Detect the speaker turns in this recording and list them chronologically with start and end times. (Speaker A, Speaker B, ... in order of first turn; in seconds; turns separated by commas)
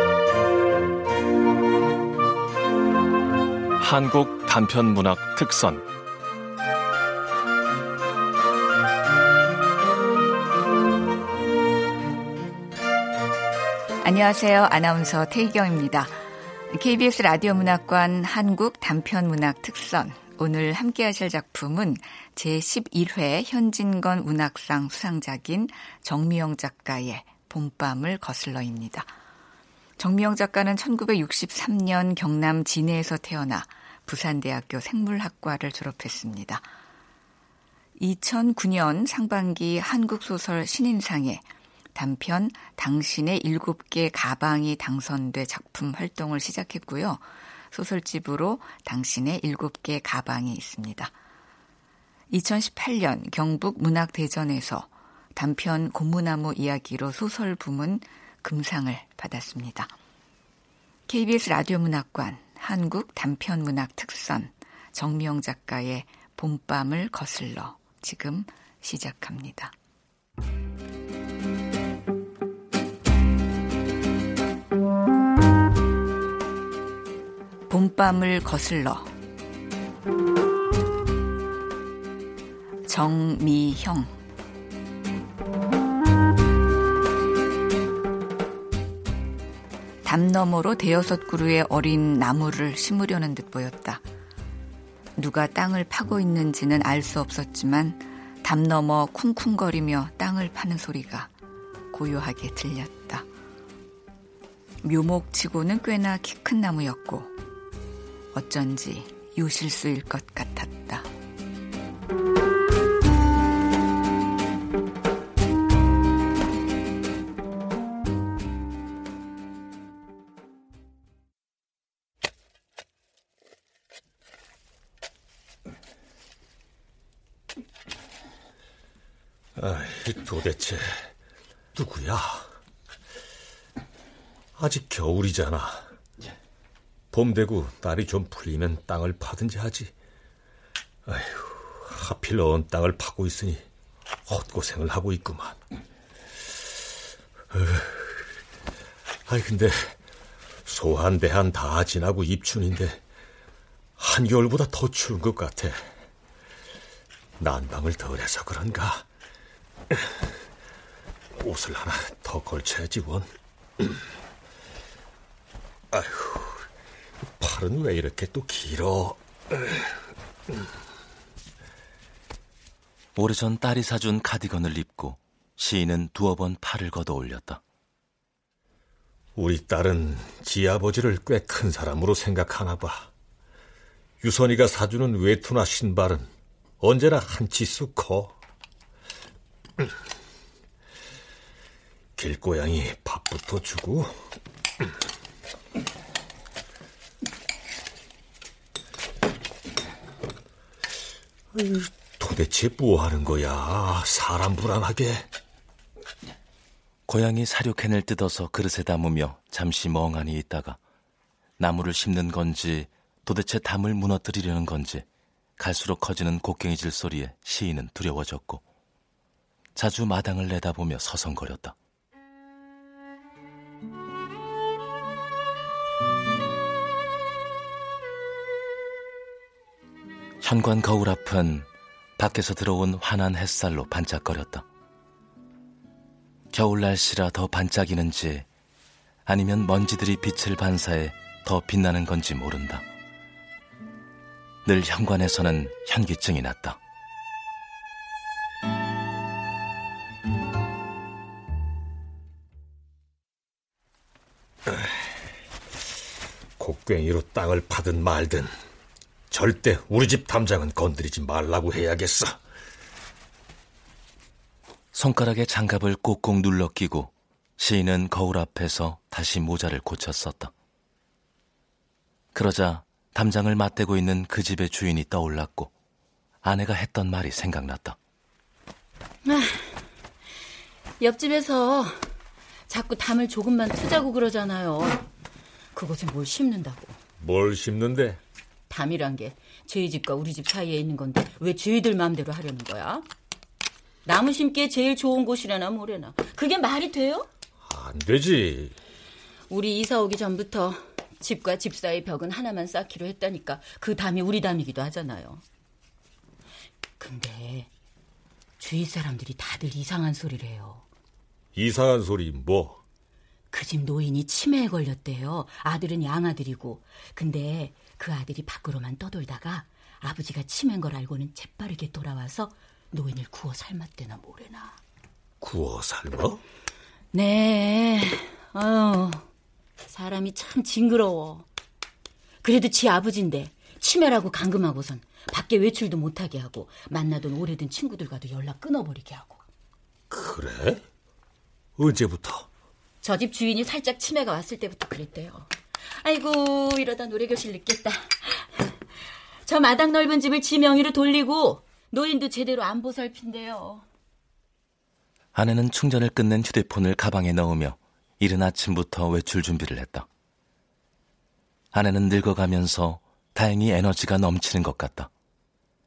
Speaker A: 3.8-5.8, Speaker B: 14.0-16.2, Speaker B: 16.7-29.1, Speaker B: 30.0-36.7, Speaker B: 38.0-51.1, Speaker B: 52.3-59.9, Speaker B: 61.1-69.7, Speaker B: 77.7-79.1, Speaker B: 82.8-84.2, Speaker B: 90.0-94.0, Speaker B: 95.2-101.3, Speaker B: 101.9-103.3, Speaker B: 104.8-107.3, Speaker B: 108.3-111.1, Speaker C: 129.6-131.1, Speaker C: 131.7-132.5, Speaker C: 134.6-135.9, Speaker C: 137.1-139.9, Speaker C: 141.1-143.6, Speaker C: 144.3-145.6, Speaker C: 147.5-148.3, Speaker C: 149.3-150.0, Speaker C: 150.7-153.0, Speaker C: 154.0-155.9, Speaker C: 157.4-159.1, Speaker C: 159.9-160.3, Speaker C: 161.4-164.0, Speaker C: 165.9-166.7, Speaker C: 167.4-170.0, Speaker D: 173.2-177.6, Speaker C: 179.4-183.1, Speaker C: 184.2-188.3, Speaker C: 192.2-194.3, Speaker C: 201.5-205.3, Speaker D: 207.1-210.8, Speaker D: 211.6-215.1, Speaker D: 215.6-218.6, Speaker D: 219.8-221.8, Speaker D: 230.4-231.7, Speaker D: 232.2-234.7, Speaker D: 236.5-238.5, Speaker D: 239.3-242.8, Speaker D: 244.7-246.8, Speaker C: 254.7-255.0, Speaker C: 256.6-258.6, Speaker C: 259.3-262.4, Speaker D: 264.9-270.5, Speaker D: 272.3-275.7, Speaker D: 276.4-278.0, Speaker E: 279.2-279.8, Speaker E: 281.0-282.1, Speaker E: 282.7-285.1, Speaker E: 285.7-287.0, Speaker C: 287.2-288.2, Speaker E: 288.7-293.1, Speaker E: 294.1-297.3, Speaker C: 297.6-298.8, Speaker E: 299.5-305.4, Speaker E: 307.0-307.7, Speaker E: 308.6-310.9, Speaker C: 311.5-312.8, Speaker E: 313.5-324.8, Speaker C: 325.4-326.4, Speaker E: 327.1-329.3, Speaker E: 329.9-331.5, Speaker E: 332.4-339.4, Speaker C: 340.1-340.8, Speaker C: 341.8-342.5, Speaker E: 343.0-348.8, Speaker E: 349.4-353.9, Speaker D: 355.4-360.1, Speaker D: 361.7-365.1